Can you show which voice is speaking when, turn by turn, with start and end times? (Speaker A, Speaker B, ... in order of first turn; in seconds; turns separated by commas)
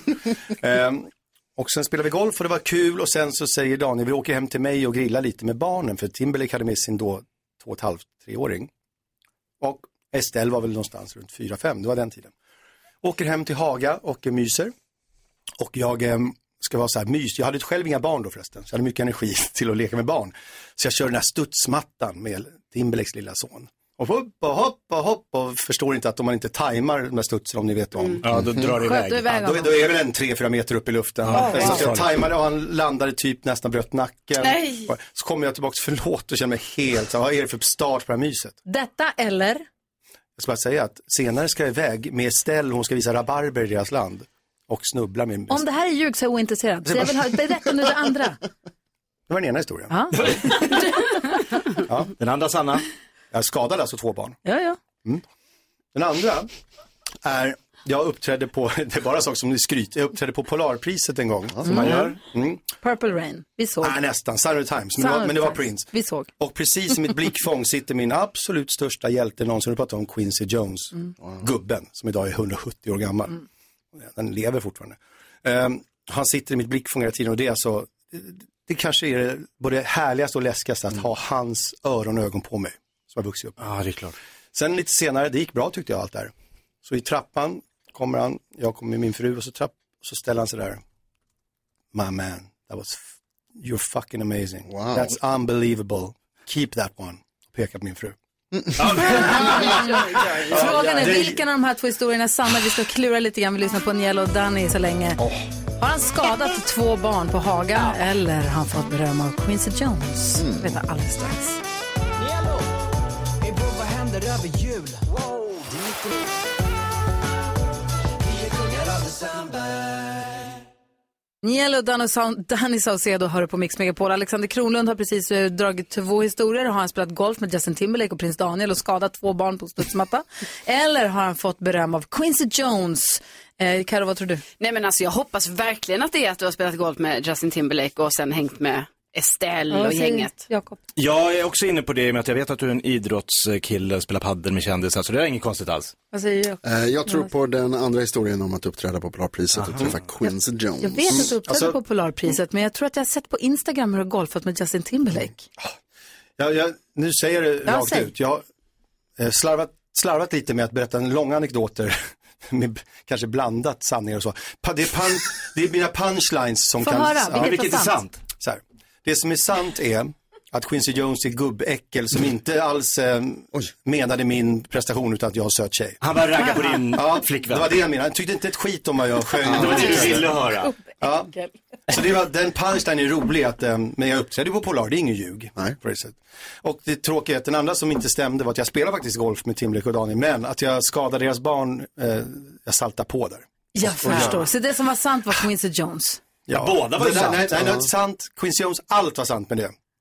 Speaker A: 0.5-8.7, Speaker A: 9.6-12.3, Speaker A: 13.0-14.7, Speaker A: 15.6-28.6, Speaker B: 28.2-29.4, Speaker C: 28.7-29.8, Speaker A: 29.3-38.6, Speaker B: 31.2-32.3, Speaker C: 31.3-31.9, Speaker D: 34.4-34.9, Speaker C: 38.7-39.6, Speaker A: 40.4-45.6, Speaker C: 45.5-48.4, Speaker A: 46.9-47.4, Speaker A: 49.3-50.6, Speaker C: 49.9-50.9, Speaker B: 50.1-50.8, Speaker A: 51.9-52.1, Speaker B: 52.2-52.9, Speaker A: 53.3-54.4, Speaker C: 54.5-54.8, Speaker A: 55.9-56.5, Speaker A: 57.2-62.6, Speaker C: 61.6-62.1, Speaker B: 61.6-62.2, Speaker C: 62.8-64.0, Speaker A: 63.8-73.4, Speaker C: 65.0-66.3, Speaker A: 74.0-83.6, Speaker B: 83.6-84.1, Speaker A: 84.5-86.3, Speaker A: 86.8-90.8, Speaker A: 91.9-93.0, Speaker A: 93.6-98.2, Speaker E: 94.7-95.1, Speaker E: 98.5-98.8, Speaker B: 98.8-99.9, Speaker A: 98.8-99.9, Speaker C: 99.4-105.2, Speaker A: 100.5-101.3, Speaker B: 100.5-101.2, Speaker C: 105.8-111.6, Speaker E: 110.4-110.8, Speaker F: 112.2-112.7, Speaker F: 113.4-116.2, Speaker F: 118.2-120.5, Speaker C: 121.4-134.4, Speaker D: 134.6-140.4, Speaker C: 139.7-140.8, Speaker B: 141.0-145.9, Speaker C: 146.1-147.3, Speaker E: 146.6-151.3, Speaker B: 149.6-149.9, Speaker C: 150.8-155.4, Speaker A: 151.1-151.8, Speaker A: 156.4-158.4, Speaker C: 157.7-158.1, Speaker A: 159.2-162.0, Speaker A: 162.5-167.6, Speaker C: 166.8-168.0, Speaker B: 167.3-168.3, Speaker A: 168.3-176.0, Speaker B: 176.0-177.8, Speaker A: 176.9-180.4, Speaker B: 179.4-180.7, Speaker E: 179.5-180.0, Speaker A: 181.0-181.3, Speaker A: 181.9-194.5, Speaker C: 193.7-196.2, Speaker A: 196.5-199.7, Speaker B: 196.5-197.6